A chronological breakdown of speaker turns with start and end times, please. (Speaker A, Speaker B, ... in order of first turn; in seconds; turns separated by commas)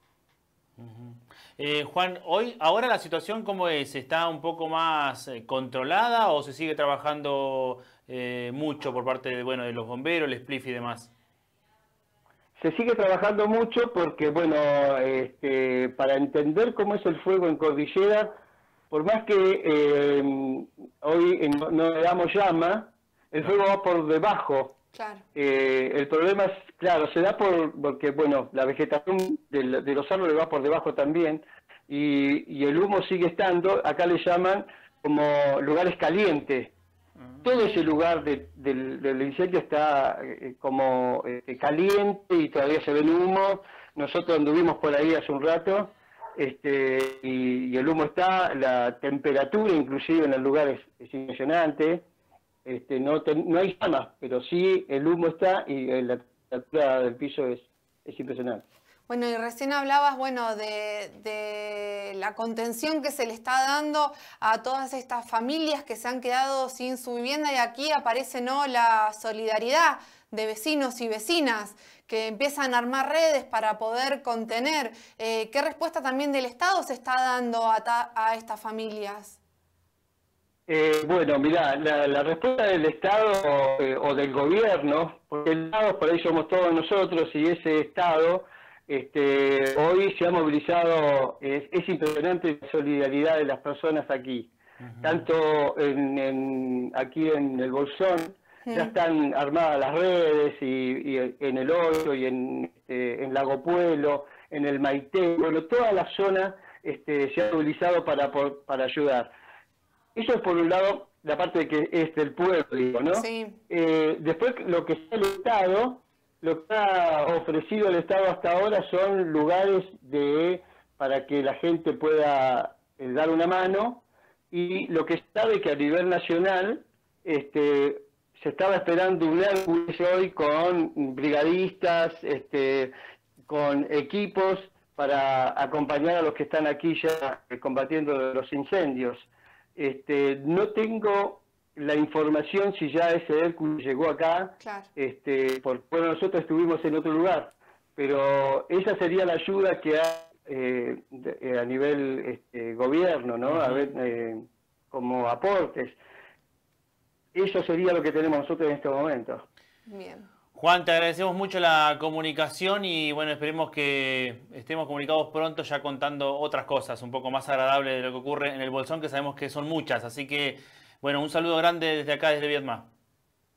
Speaker A: 0.8-11.1, Speaker B: 12.6-18.3, Speaker B: 18.9-24.8, Speaker C: 24.9-25.2, Speaker B: 25.4-36.7, Speaker B: 37.4-52.0, Speaker B: 52.6-58.6, Speaker C: 59.1-79.4, Speaker B: 80.7-109.3, Speaker A: 94.8-95.2, Speaker C: 98.7-98.9, Speaker B: 110.2-132.9, Speaker C: 113.1-113.6, Speaker B: 133.5-156.0, Speaker C: 144.6-144.9, Speaker A: 153.5-153.9, Speaker B: 157.3-159.4, Speaker C: 159.9-160.3, Speaker A: 160.6-172.9